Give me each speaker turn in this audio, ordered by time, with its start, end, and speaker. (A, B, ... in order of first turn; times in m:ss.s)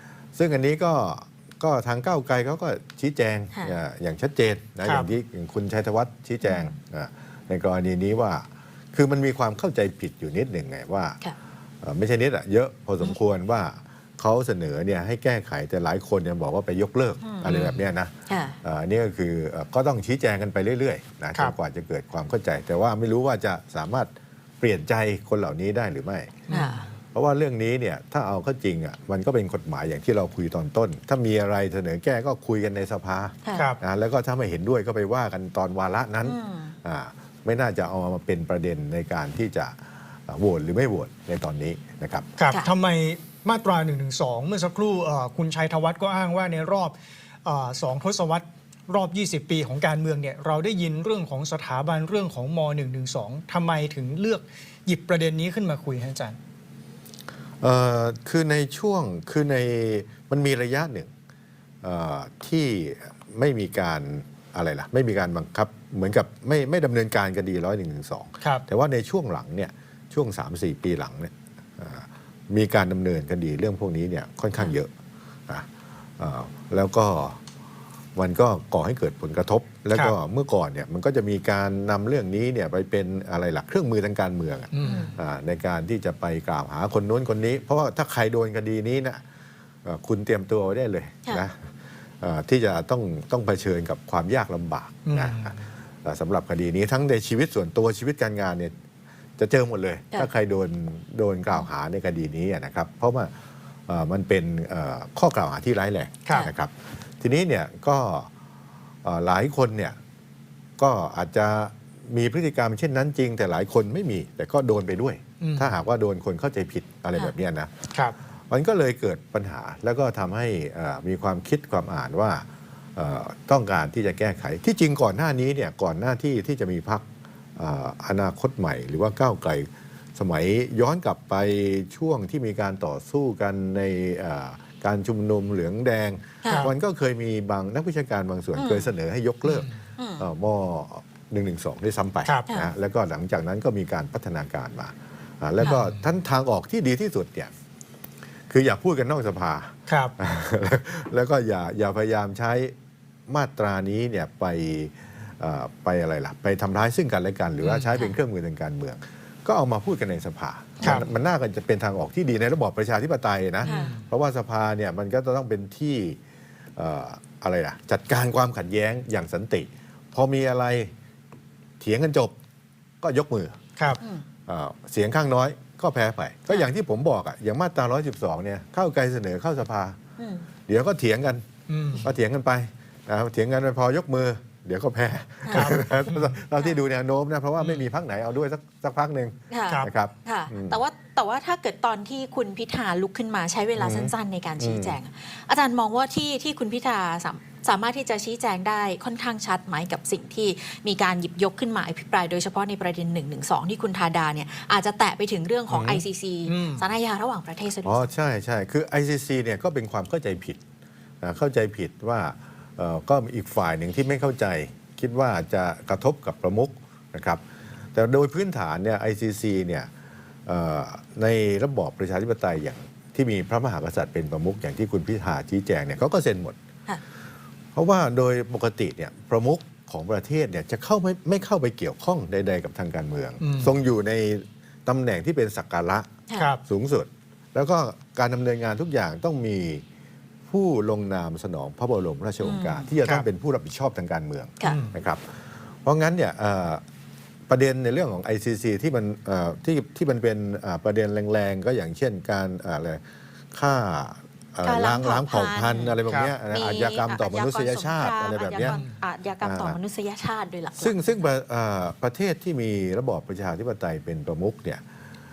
0:00.3-0:11.2 A
0:04.8-0:05.1 B
0:11.8-0:26.4 A
0:17.2-0:17.7 C
0:17.5-0:17.7 B
0:18.3-0:18.6 C
0:26.5-0:26.8 B
0:26.5-0:26.8 C
0:27.1-0:42.3 A
0:33.5-0:33.8 B
0:36.2-0:36.7 C
0:42.4-0:56.4 B
0:57.6-1:01.1 A
1:01.8-1:14.9 A
1:16.2-1:17.4 A
1:18.2-1:29.2 A
1:24.7-1:25.1 B
1:24.8-1:25.1 C
1:29.8-1:38.7 A
1:35.0-1:35.5 B
1:39.4-1:43.3 A
1:43.9-1:48.3 A
1:49.0-1:50.0 A
1:50.8-1:57.8 A
1:55.4-1:55.7 B
1:58.5-2:07.0 A
2:07.6-2:27.5 A
2:16.5-2:16.7 B
2:18.5-2:18.9 C
2:19.4-2:19.7 B
2:20.0-2:20.2 C
2:25.6-2:25.9 B
2:28.5-2:32.7 A
2:29.9-2:30.1 B
2:33.3-2:46.2 A
2:37.6-2:37.9 B
2:43.6-2:44.0 B
2:43.6-2:44.0 C
2:46.8-2:50.9 A
2:51.8-2:52.3 A
2:53.0-2:53.6 A
2:54.4-3:00.0 A
3:00.2-3:00.4 C
3:00.7-3:01.4 A
3:01.7-3:02.1 B
3:02.0-3:10.8 A
3:05.5-3:06.3 B
3:09.5-3:28.0 C
3:13.8-3:15.0 A
3:25.7-3:26.0 A
3:26.5-3:26.8 B
3:27.8-3:30.6 A
3:31.2-3:37.4 A
3:37.9-3:39.9 A
3:40.4-3:46.6 A
3:47.7-3:56.1 A
3:53.4-3:53.7 B
3:56.4-3:56.6 B
3:56.6-3:59.8 A
4:00.5-4:05.2 A
4:02.4-4:02.9 C
4:04.6-4:04.9 B
4:05.8-4:06.8 A
4:07.5-4:13.0 A
4:13.5-4:18.8 A
4:14.6-4:16.0 C
4:16.1-4:16.3 B
4:16.5-4:21.0 C
4:18.6-4:18.9 B
4:19.4-4:19.8 A
4:20.7-4:24.8 A